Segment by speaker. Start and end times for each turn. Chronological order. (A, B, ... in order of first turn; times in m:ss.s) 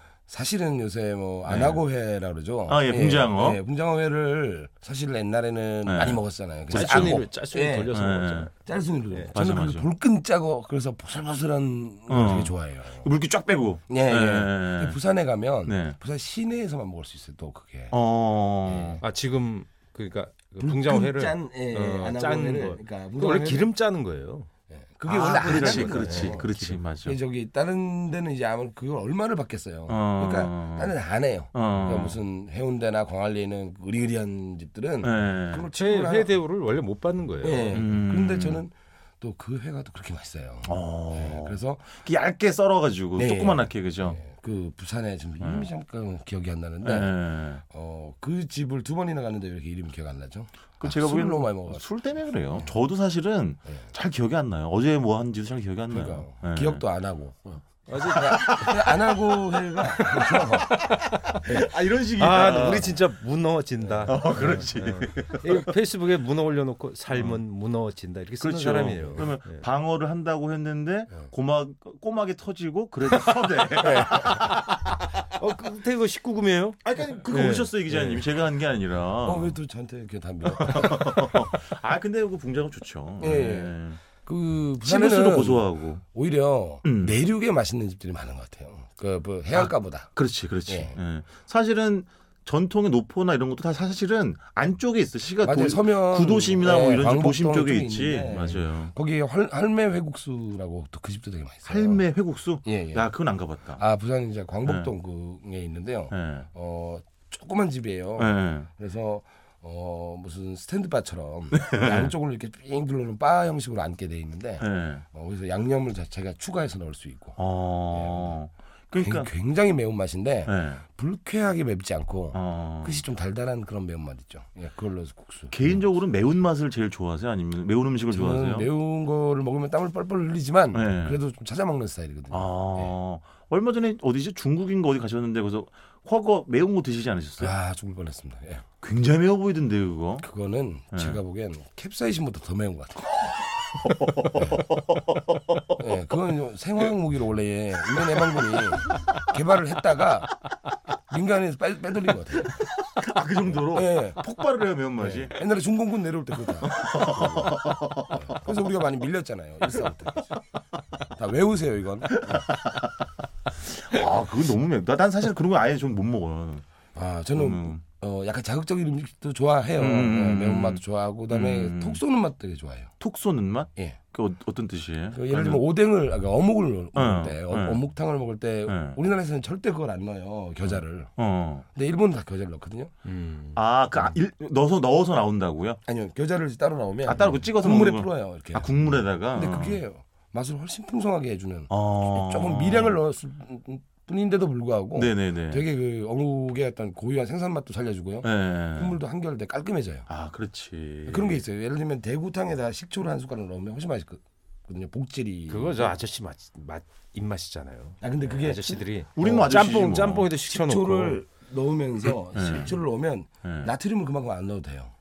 0:00.3-0:07.9 A
0:01.5-0:01.8 B
0:02.7-0:03.6 B
0:05.8-0:07.3 B
0:06.7-0:08.5 C
0:07.9-0:08.5 B
0:08.6-0:13.1 A
0:09.3-0:09.8 B
0:12.1-0:15.0 B
0:13.9-0:17.9 A
0:15.6-0:16.0 B
0:17.9-0:19.0 B
0:18.6-0:19.0 A
0:19.0-0:24.5 C
0:20.6-0:23.7 A
0:24.7-0:36.3 A
0:25.1-0:26.7 C
0:25.1-0:27.2 B
0:29.9-0:30.9 B
0:31.5-0:32.2 B
0:35.0-0:35.7 B
0:35.7-0:37.8 C
0:37.4-0:41.9 A
0:37.7-0:38.6 B
0:40.6-0:44.2 B
0:43.2-0:51.8 A
0:45.4-0:45.7 B
0:46.8-0:47.6 B
0:50.8-0:56.8 B
0:55.9-1:00.9 A
0:57.9-0:58.6 C
0:58.2-0:59.0 B
1:00.0-1:03.0 B
1:01.4-1:01.7 A
1:02.2-1:09.6 C
1:03.8-1:04.5 A
1:04.0-1:05.7 B
1:08.4-1:15.0 B
1:13.8-1:14.5 A
1:15.3-1:18.2 C
1:16.8-1:19.5 B
1:19.2-1:21.6 A
1:20.5-1:24.0 B
1:23.2-1:30.1 A
1:24.8-1:26.0 B
1:26.8-1:27.1 B
1:29.5-1:38.9 B
1:30.6-1:31.0 A
1:35.4-1:42.0 A
1:41.7-1:43.8 B
1:42.6-1:43.1 A
1:43.8-1:57.4 A
1:46.1-1:46.5 B
1:48.2-1:48.7 B
1:51.5-1:52.1 B
1:54.6-1:55.0 B
1:57.4-1:59.3 B
1:57.9-1:58.4 A
1:59.0-2:05.8 A
2:00.5-2:00.8 B
2:02.3-2:03.0 B
2:05.5-2:08.7 B
2:08.1-2:12.9 A
2:10.7-2:11.2 B
2:12.3-2:17.5 B
2:17.4-2:18.6 A
2:18.8-2:20.2 B
2:20.2-2:23.3 A
2:20.9-2:21.2 B
2:23.6-2:25.8 B
2:24.3-2:24.6 A
2:25.8-2:30.4 A
2:31.1-2:32.7 A
2:32.6-2:35.4 B
2:33.5-2:34.2 A
2:35.0-2:40.4 A
2:36.6-2:38.4 B
2:41.1-2:42.5 A
2:42.2-2:42.9 B
2:43.5-2:46.6 B
2:46.9-2:52.9 A
2:47.3-2:47.8 B
2:49.8-2:52.0 B
2:53.0-2:55.6 B
2:55.1-3:01.1 A
2:56.9-2:57.8 B
2:58.7-2:59.0 B
3:01.2-3:01.6 B
3:01.7-3:02.9 A
3:03.0-3:03.6 C
3:03.6-3:05.8 B
3:05.9-3:20.1 A
3:07.0-3:09.8 B
3:11.7-3:13.0 B
3:15.0-3:15.6 B
3:18.2-3:19.0 B
3:20.1-3:21.4 B
3:21.1-3:25.9 A
3:25.5-3:31.2 C
3:28.0-3:34.9 A
3:29.2-3:30.3 B
3:32.3-3:32.7 B
3:33.4-3:33.7 B